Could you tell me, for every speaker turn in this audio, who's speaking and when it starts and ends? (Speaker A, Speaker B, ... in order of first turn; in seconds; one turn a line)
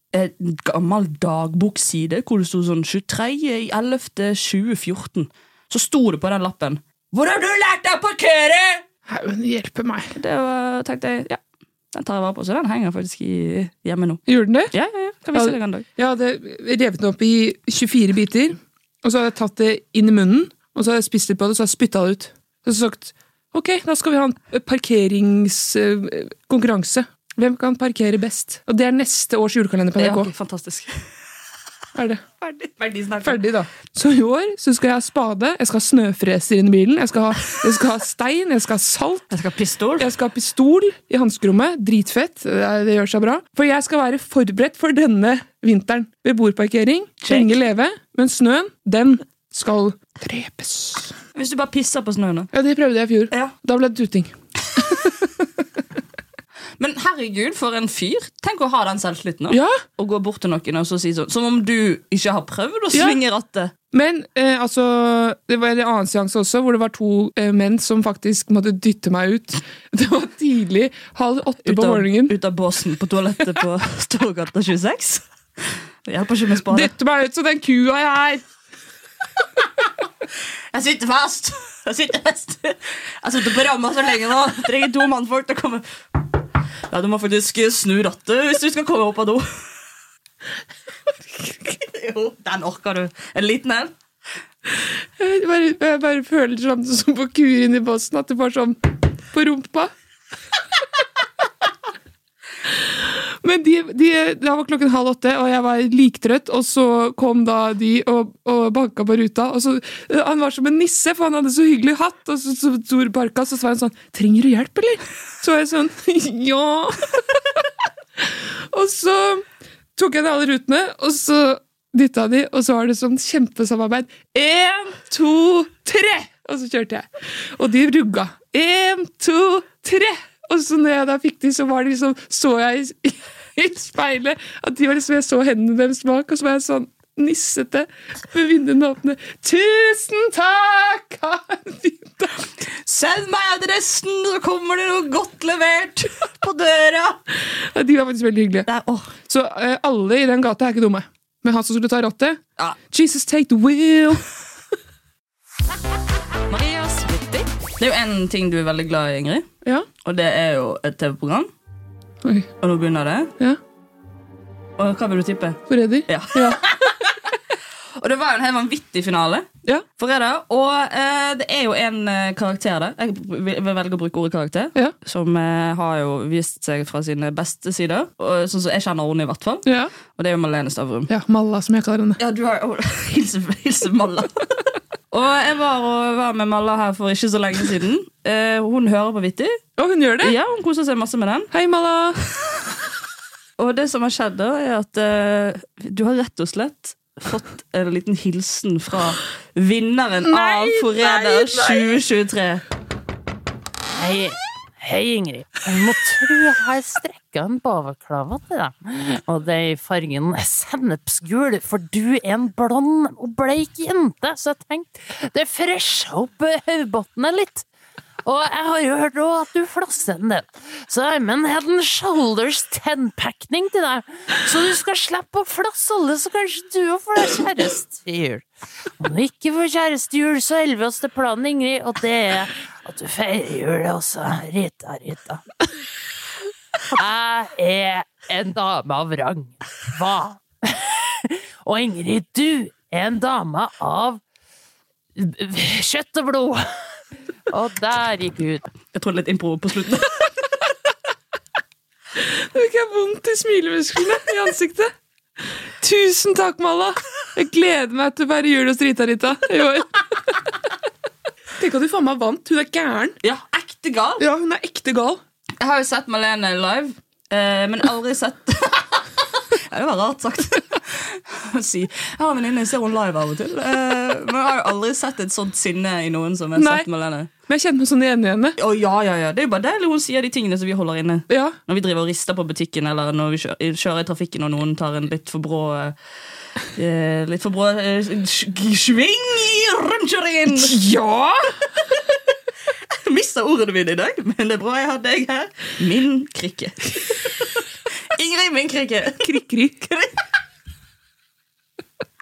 Speaker A: 0.1-8.8
Speaker B: 9.1-10.1
Speaker A: 10.1-11.4
Speaker A: 11.9-15.9
Speaker B: 14.3-14.7
Speaker B: 15.3-30.3
Speaker A: 30.0-31.0
Speaker B: 31.9-32.2
Speaker A: 32.4-33.4
Speaker B: 33.2-39.3
Speaker A: 39.3-40.1
Speaker B: 40.0-51.2
Speaker A: 47.2-47.6
Speaker A: 51.4-52.5
Speaker B: 52.5-55.2
Speaker A: 56.8-63.7
Speaker B: 59.5-59.8
Speaker B: 62.9-63.2
Speaker B: 63.9-72.3
Speaker A: 71.7-75.2
Speaker A: 76.0-76.9
Speaker B: 76.7-78.4
Speaker A: 80.7-86.2
Speaker A: 86.9-89.5
Speaker A: 91.7-93.9
Speaker B: 95.2-98.8
Speaker B: 99.3-99.9
Speaker B: 102.9-117.2
Speaker B: 118.2-119.5
Speaker B: 120.0-142.5
Speaker A: 142.8-147.2
Speaker B: 147.7-148.7
Speaker A: 148.7-149.1
Speaker B: 149.3-152.4
Speaker B: 152.9-154.2
Speaker A: 156.5-159.5
Speaker A: 160.0-161.5
Speaker B: 162.2-162.5
Speaker A: 162.6-163.3
Speaker A: 164.8-167.0
Speaker B: 165.7-166.6
Speaker A: 168.0-181.1
Speaker B: 179.7-179.9
Speaker B: 181.1-182.2
Speaker A: 182.2-184.5
Speaker A: 185.1-189.6
Speaker B: 189.8-190.4
Speaker A: 190.2-191.5
Speaker B: 191.5-192.3
Speaker A: 193.6-202.6
Speaker B: 200.3-201.9
Speaker C: 203.9-217.7
Speaker C: 218.2-228.5
Speaker C: 229.0-235.4
Speaker C: 236.9-244.2
Speaker C: 245.2-246.6
Speaker C: 247.5-248.7
Speaker A: 248.9-250.3
Speaker B: 252.2-254.9
Speaker B: 255.8-260.3
Speaker B: 261.6-263.2
Speaker A: 263.2-264.2
Speaker B: 264.2-265.2
Speaker A: 265.6-277.3
Speaker B: 276.6-276.9
Speaker B: 277.5-278.6
Speaker A: 278.6-286.0
Speaker B: 281.3-281.6
Speaker A: 286.8-290.8
Speaker B: 290.5-291.6
Speaker A: 292.9-297.6
Speaker A: 298.1-299.4
Speaker B: 299.2-300.0